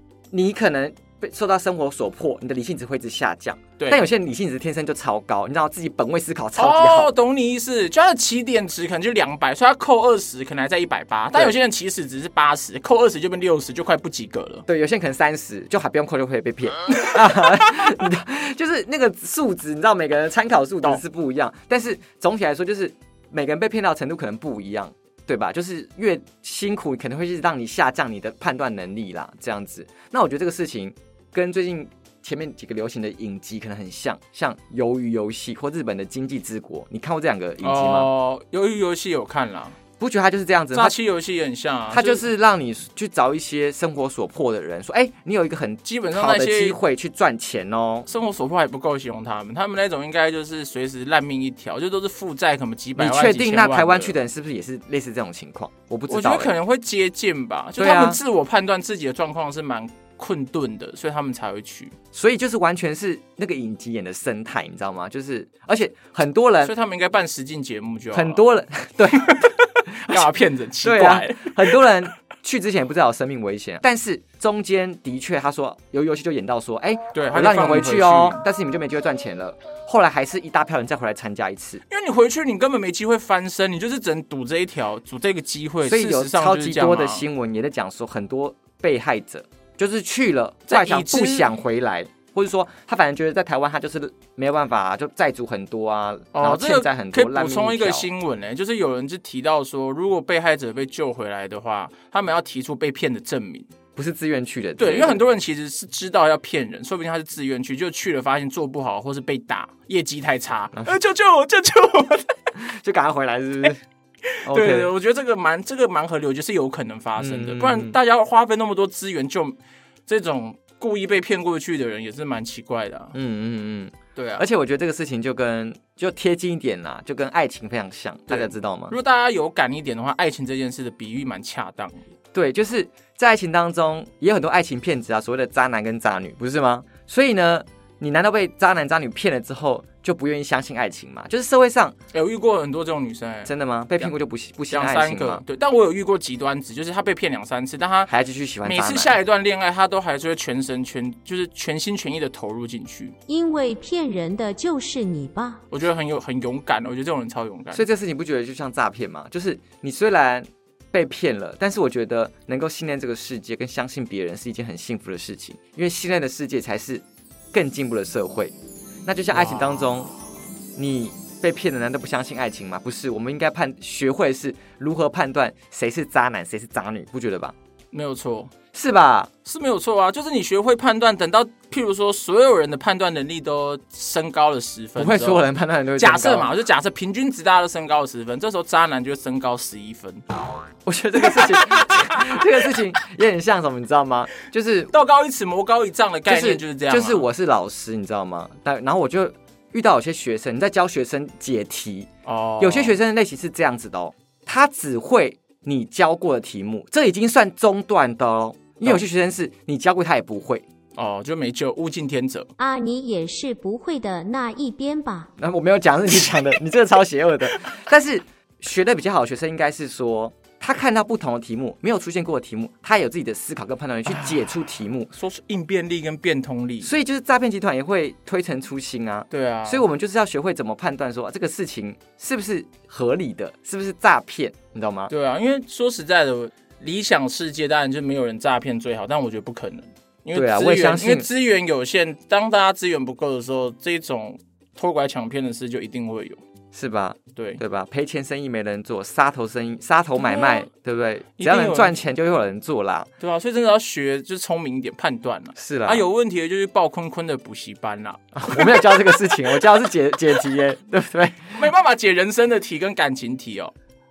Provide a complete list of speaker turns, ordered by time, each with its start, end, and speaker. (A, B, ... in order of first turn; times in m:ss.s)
0:00.3-0:07.1 A
0:03.8-0:04.0 B
0:06.6-0:14.7 B
0:14.7-0:38.1 A
0:37.6-0:39.8 B
0:40.0-0:41.0 A
0:40.7-0:42.2 B
0:41.9-0:48.1 A
0:45.8-0:46.8 B
0:48.1-0:54.2 B
0:53.0-0:56.6 A
0:56.1-1:02.0 B
0:57.8-0:58.2 A
1:02.1-1:06.7 A
1:06.6-1:08.5 B
1:08.1-1:09.4 A
1:09.1-1:11.9 B
1:10.1-1:21.8 A
1:17.1-1:18.4 B
1:21.9-1:27.2 B
1:25.8-1:38.1 A
1:30.7-1:31.5 B
1:36.3-1:43.7 B
1:44.0-1:45.2 A
1:44.8-1:52.4 B
1:52.6-1:53.8 A
1:54.3-2:03.2 B
1:54.5-1:54.9 A
1:57.2-1:58.0 A
2:03.1-2:09.0 A
2:04.2-2:04.5 B
2:08.3-2:12.0 B
2:12.3-2:22.0 A
2:22.1-2:24.1 B
2:23.4-2:25.4 A
2:24.7-2:28.1 B
2:28.1-2:29.2 A
2:28.6-2:33.2 B
2:33.3-2:35.6 C
2:35.7-2:37.9 B
2:37.7-2:48.5 A
2:49.0-2:50.1 A
2:49.3-2:49.9 B
2:50.8-2:57.6 A
2:57.9-2:58.5 B
2:58.7-2:59.3 A
2:59.4-3:10.2 B
3:05.0-3:06.5 A
3:10.8-3:14.9 A
3:11.2-3:12.7 B
3:14.9-3:17.3 B
3:16.3-3:30.6 A
3:22.2-3:23.0 B
3:31.0-3:32.5 B
3:32.6-3:35.3 C
3:35.4-3:45.1 A
3:45.1-3:46.9 B
3:46.8-3:55.1 A
3:49.3-3:49.9 B
3:55.1-4:06.4 B
4:00.3-4:01.3 A
4:06.7-4:13.1 A
4:07.4-4:07.6 B
4:10.2-4:10.7 B
4:11.4-4:12.0 B
4:13.2-4:18.8 B
4:15.6-4:16.1 A
4:18.4-4:21.5 A
4:21.5-4:23.7 B